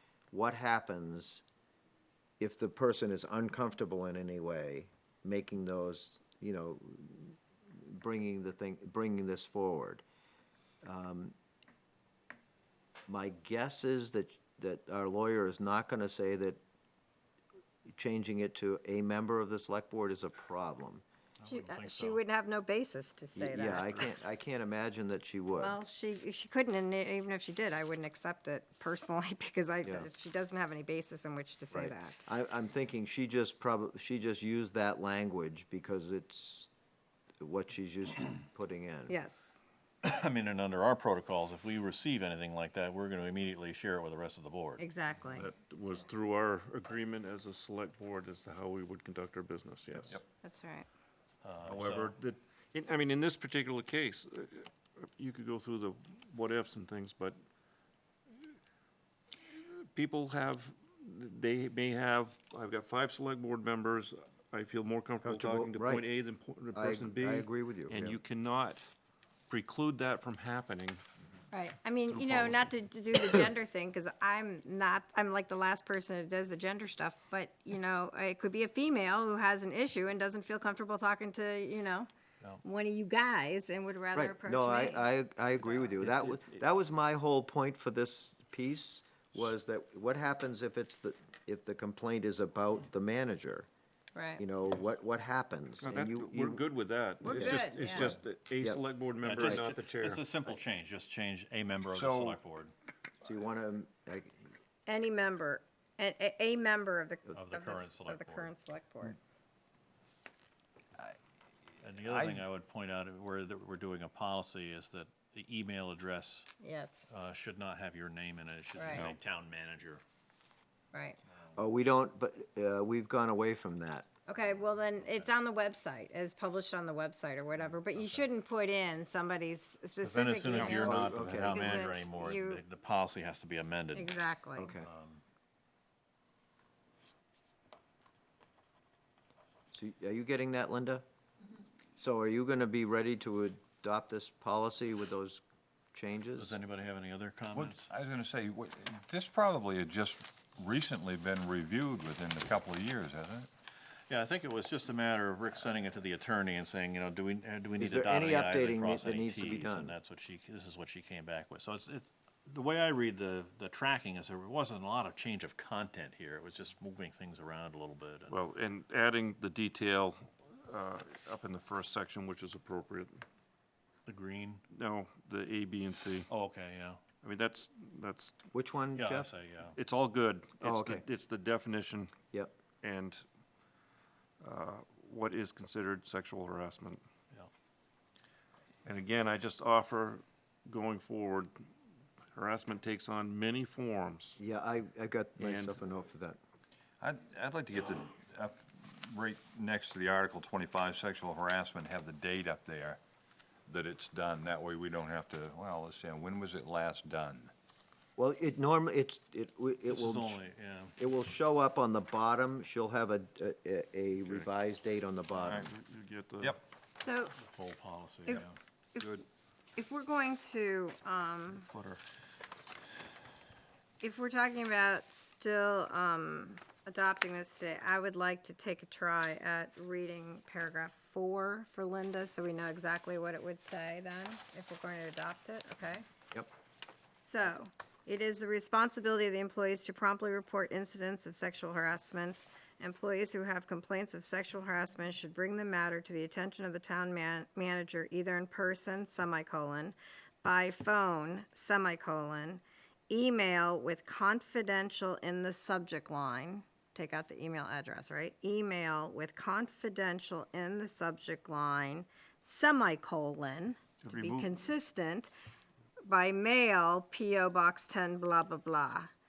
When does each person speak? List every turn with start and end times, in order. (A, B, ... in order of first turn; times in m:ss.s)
0:00.3-0:01.4 A
0:02.4-0:10.0 A
0:10.8-0:11.3 A
0:13.1-0:16.6 A
0:17.8-0:21.0 A
0:21.4-0:22.2 B
0:21.4-0:24.2 C
0:23.3-0:25.8 A
0:25.5-0:32.2 C
0:31.7-0:36.7 A
0:37.4-0:39.2 A
0:39.1-0:39.6 C
0:40.0-0:44.8 B
0:44.8-0:45.5 C
0:45.2-0:50.2 D
0:50.4-0:50.9 C
0:51.4-0:52.1 B
0:51.6-0:57.4 D
0:59.5-1:08.9 D
1:05.2-1:06.0 A
1:06.7-1:08.2 A
1:09.5-1:11.0 D
1:11.5-1:22.1 C
1:12.1-1:12.7 D
1:22.6-1:25.1 C
1:24.1-1:33.7 A
1:26.0-1:26.5 D
1:34.1-1:34.4 C
1:34.4-1:36.6 A
1:35.8-1:40.2 D
1:37.2-1:38.8 A
1:37.2-1:38.1 C
1:39.2-1:42.7 B
1:41.9-1:42.4 E
1:43.2-1:44.4 A
1:44.9-1:49.2 C
1:47.3-1:48.5 B
1:51.8-1:56.5 B
1:52.0-1:52.4 E
1:56.6-1:57.1 C
1:57.1-2:00.0 B
1:58.7-1:59.1 C
2:00.9-2:01.2 C
2:01.3-2:01.6 B
2:01.6-2:04.1 A
2:04.3-2:12.6 C
2:07.9-2:08.2 B
2:10.0-2:14.2 B
2:10.5-2:10.8 D
2:10.7-2:11.9 A
2:13.9-2:14.7 C
2:14.6-2:14.9 A
2:14.8-2:15.2 B
2:19.7-2:21.0 A
2:22.0-2:25.4 A
2:25.9-2:26.5 A
2:26.4-2:27.9 B
2:27.5-2:33.5 E
2:34.1-2:48.4 B
2:37.8-2:39.9 A
2:48.3-2:53.2 D
2:54.0-2:54.6 B
2:54.7-2:56.3 D
2:56.3-2:57.0 B
2:57.1-2:58.5 D
2:58.5-2:59.3 A
2:59.0-2:59.8 B
2:59.7-3:02.1 D
3:00.6-3:01.0 A
3:02.8-3:03.2 D
3:04.4-3:07.0 D
3:08.8-3:11.5 D
3:12.3-3:14.4 D
3:14.4-3:16.4 A
3:15.4-3:15.8 D
3:17.0-3:23.0 E
3:23.6-3:27.5 E
3:28.2-3:30.4 A
3:29.9-3:30.9 B
3:31.0-3:35.7 A
3:34.2-3:34.5 D
3:35.4-3:35.7 E
3:35.6-3:36.6 D
3:37.0-3:37.4 C
3:37.4-3:38.6 B
3:38.2-3:39.2 C
3:39.8-3:41.7 C
3:41.5-3:42.0 D
3:44.0-3:56.0 C
3:57.2-4:25.3 C
4:24.0-4:24.6 D
4:26.0-4:29.1 C